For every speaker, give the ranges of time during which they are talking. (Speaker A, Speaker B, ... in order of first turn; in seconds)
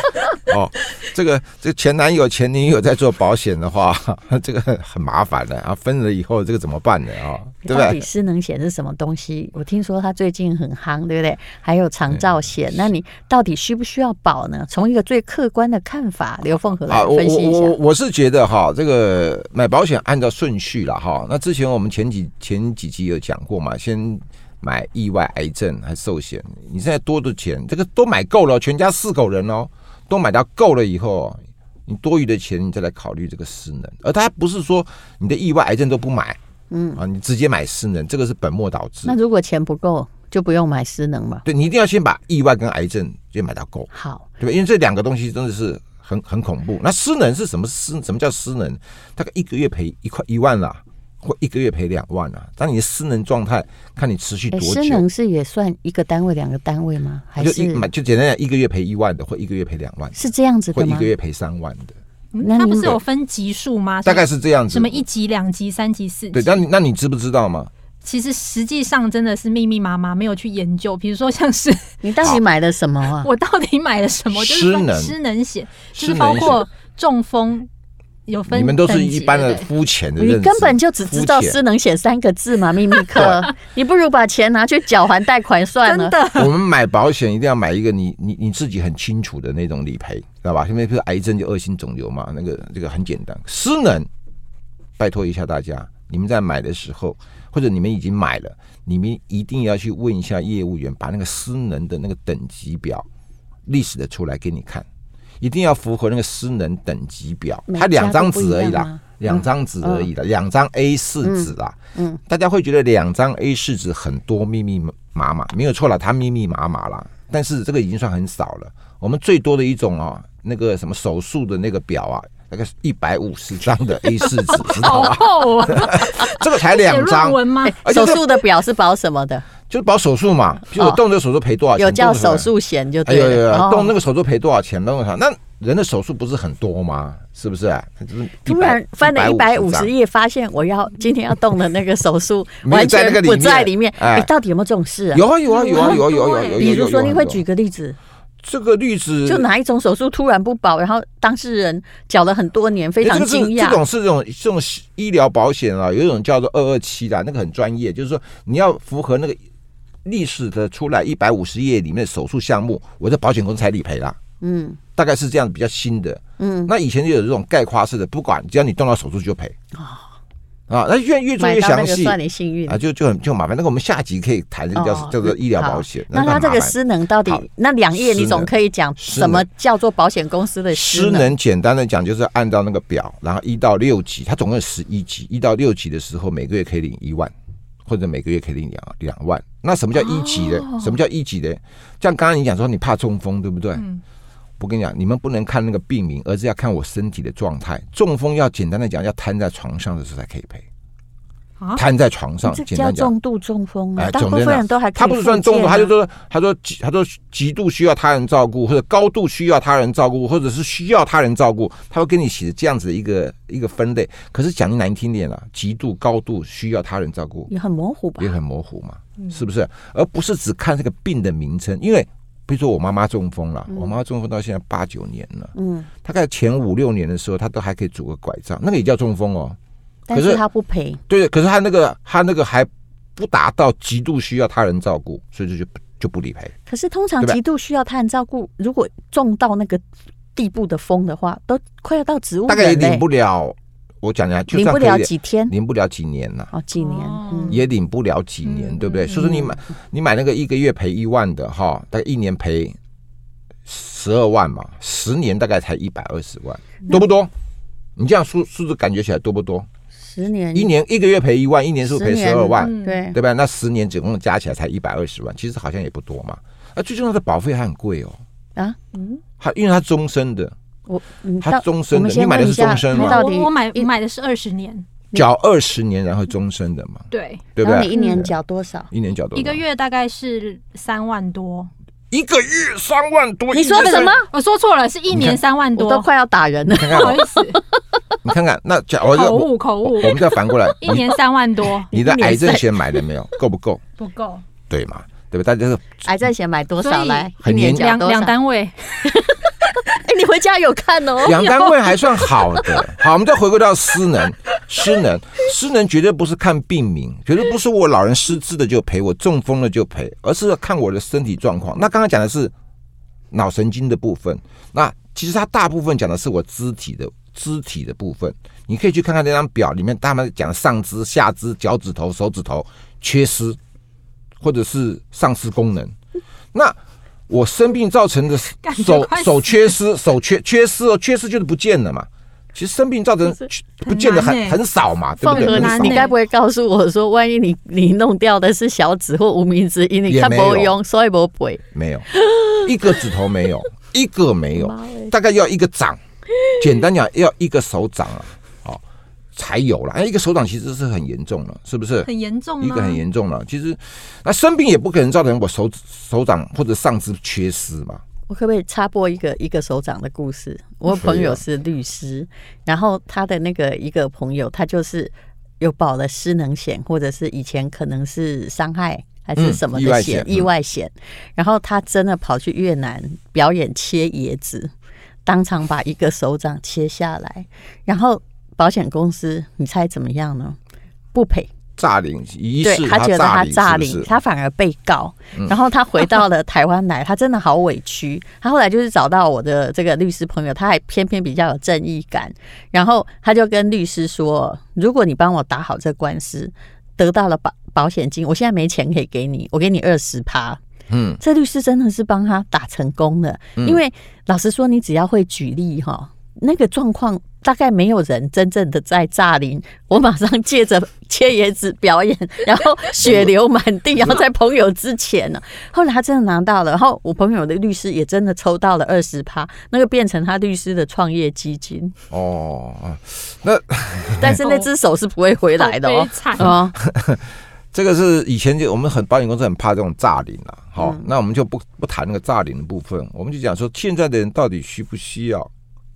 Speaker A: 0.4-8.0, 16.9-36.4, 37.0-39.1, 41.4-55.0, 57.4-60.2, 60.7-62.0, 64.0-65.0, 66.3-67.7, 74.3-75.1, 75.9-76.6, 78.5-81.6, 83.1-83.5, 86.3-94.1, 95.0-103.0, 103.7-104.8, 105.4-128.2, 129.7-132.5, 133.0-139.9, 142.6-144.3, 145.1-147.4, 148.4-149.4, 153.0-159.4, 160.0-164.2, 165.0-169.5, 170.7-176.7, 177.2-179.4, 180.7-187.3, 187.8-193.8, 194.6-200.6, 201.8-203.1, 204.0-217.5, 218.2-225.5, 226.0-229.6, 230.1-230.4, 231.1-236.5, 242.5-246.5, 247.5-252.8, 253.7-257.3, 258.0-259.7, 260.5-268.2, 269.4-270.5, 271.4-273.2, 275.1-278.3, 278.9-279.6, 282.1-284.2, 285.1-285.4, 286.7-287.2, 288.2-291.1, 291.9-293.8, 294.7-296.0, 297.4-297.9, 301.2-312.5, 313.3-323.6, 324.4-325.9, 327.3-336.0, 340.1-340.8, 341.7-342.1, 342.6-346.0, 346.5-348.8, 349.4-352.1, 352.6-358.0, 360.9-361.4, 369.4-370.5, 381.8-384.1, 400.9-401.2, 413.0-413.3, 422.1-424.4, 426.4-435.5
Speaker B: 7.6-17.8, 36.7-37.0, 39.0-41.4, 43.9-44.3, 54.5-57.9, 60.1-61.1, 62.4-63.0, 72.0-73.3, 80.2-86.2, 107.7-110.1, 111.2-112.2, 127.6-129.4, 130.8-131.0, 131.8-133.9, 138.4-145.2, 145.7-146.0, 146.6-148.0, 149.2-153.8, 164.4-164.8, 166.4-166.7, 169.7-170.1, 171.4-172.8, 174.7-181.3, 190.4-190.9, 202.4-205.9, 217.5-218.4, 223.7-223.9, 225.5-225.9, 230.1-231.0, 236.7-239.8, 240.3-243.0, 244.5-245.5, 246.5-247.6, 249.1-249.6, 260.0-260.7, 261.8-263.2, 270.9-273.9, 277.6-278.9, 283.5-284.3, 285.7-287.6, 291.9-293.0, 296.0-298.4, 299.1-301.4, 335.2-342.9, 344.6-345.1, 358.3-374.7, 375.2-380.6, 381.1-381.5, 382.6-400.6, 401.2-421.9, 424.2-426.8, 430.8-431.1
Speaker C: 62.3-66.6, 68.0-72.3, 73.0-77.7, 78.3-79.7, 85.8-86.6, 124.2-128.2, 145.5-146.7, 193.7-194.0, 246.7-247.6, 248.4-249.0, 262.6-263.0, 268.9-269.2, 272.9-274.9, 277.1-278.2, 279.3-281.7, 283.6-286.1, 286.8-287.6, 289.1-290.2, 290.8-291.9, 294.0-294.4, 296.8-299.3, 301.3-302.8, 328.6-329.7, 333.8-334.6, 335.3-336.1, 352.0-353.0, 424.4-424.7, 425.6-426.6